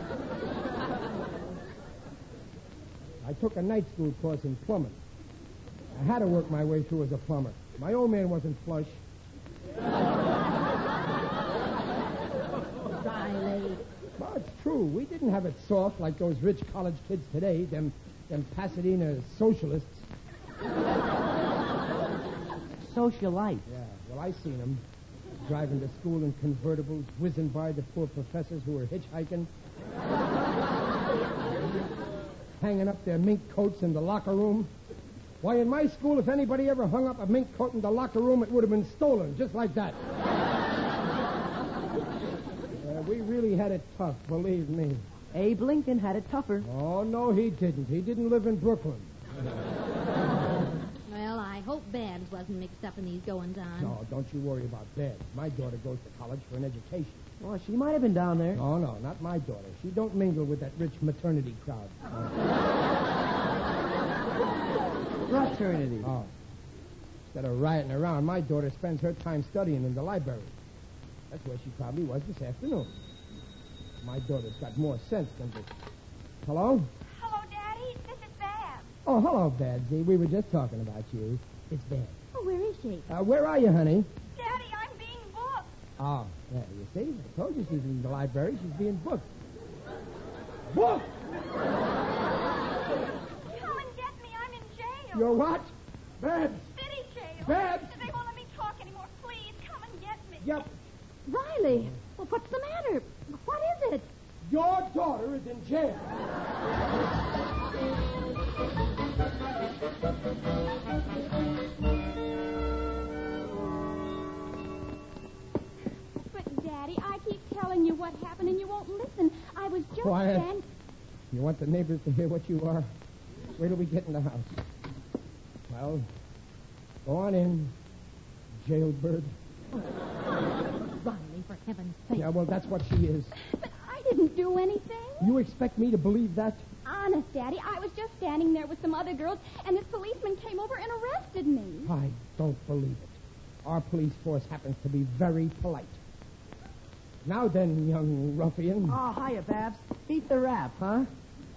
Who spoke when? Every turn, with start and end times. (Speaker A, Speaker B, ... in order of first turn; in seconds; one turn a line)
Speaker A: 3.2-5.0
Speaker A: 5.9-9.0
Speaker B: 12.9-13.8
Speaker A: 14.2-20.1
Speaker C: 22.8-23.6
Speaker A: 23.7-24.8
Speaker A: 25.4-29.5
Speaker A: 32.6-34.7
Speaker A: 35.4-40.0
Speaker A: 42.8-45.0
Speaker C: 45.3-46.7
Speaker A: 46.6-49.6
Speaker B: 51.1-54.0
Speaker A: 53.8-57.2
Speaker C: 57.4-58.6
Speaker A: 58.5-62.4
Speaker C: 65.3-66.1
Speaker A: 66.0-66.3
Speaker A: 67.3-70.5
Speaker A: 71.3-73.0
Speaker A: 74.0-75.7
Speaker A: 76.4-76.9
Speaker D: 77.1-78.8
Speaker A: 79.0-82.2
Speaker B: 82.3-83.1
Speaker A: 83.1-84.1
Speaker D: 84.4-85.7
Speaker A: 86.0-89.3
Speaker A: 90.7-91.1
Speaker D: 93.3-95.4
Speaker A: 95.1-96.7
Speaker D: 96.7-100.6
Speaker A: 97.4-98.1
Speaker A: 100.4-100.8
Speaker B: 101.2-104.1
Speaker A: 104.4-106.1
Speaker D: 116.3-120.7
Speaker A: 119.9-120.5
Speaker A: 121.3-122.9
Speaker A: 123.6-124.6
Speaker A: 125.7-126.0
Speaker A: 127.0-127.7
Speaker A: 128.6-129.3
Speaker B: 131.0-132.3
Speaker A: 132.1-133.3
Speaker D: 133.3-135.3
Speaker A: 135.2-136.7
Speaker D: 136.8-141.9
Speaker A: 141.8-146.0
Speaker A: 147.2-149.0
Speaker C: 148.8-151.1